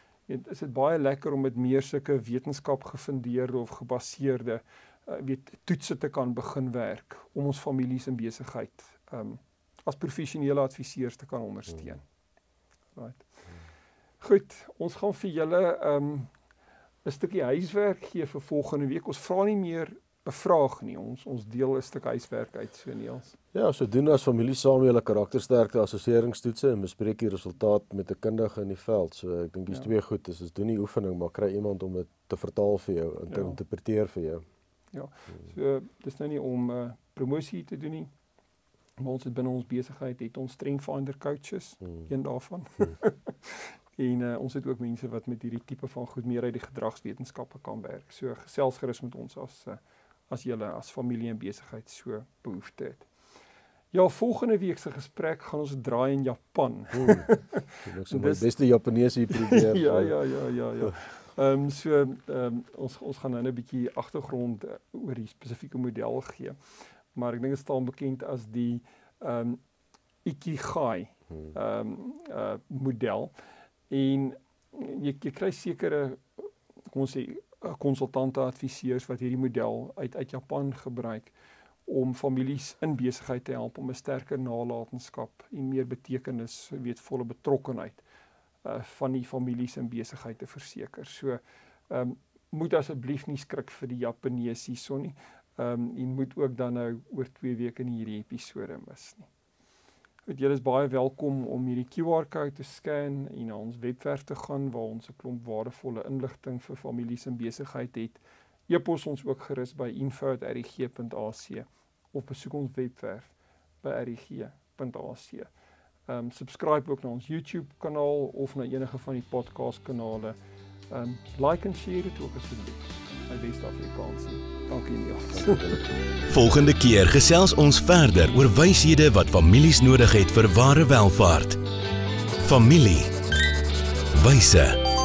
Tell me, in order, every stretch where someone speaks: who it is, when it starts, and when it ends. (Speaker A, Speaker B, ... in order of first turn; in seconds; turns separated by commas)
Speaker A: 0.3-12.0, Speaker A: 13.0-13.3, Speaker A: 14.2-16.3, Speaker A: 17.1-23.4, Speaker B: 23.5-34.4, Speaker A: 33.3-33.6, Speaker A: 34.9-38.1, Speaker A: 39.0-53.1, Speaker A: 53.9-58.5, Speaker B: 56.9-57.3, Speaker B: 57.8-60.2, Speaker A: 59.3-66.6, Speaker A: 67.1-69.6, Speaker A: 70.2-73.3, Speaker A: 73.9-81.3, Speaker A: 81.9-88.0, Speaker A: 88.6-99.3, Speaker A: 100.3-115.5, Speaker A: 116.1-120.4, Speaker A: 120.9-125.8, Speaker B: 125.5-125.8, Speaker C: 126.3-131.6, Speaker C: 132.4-133.1, Speaker C: 134.1-134.8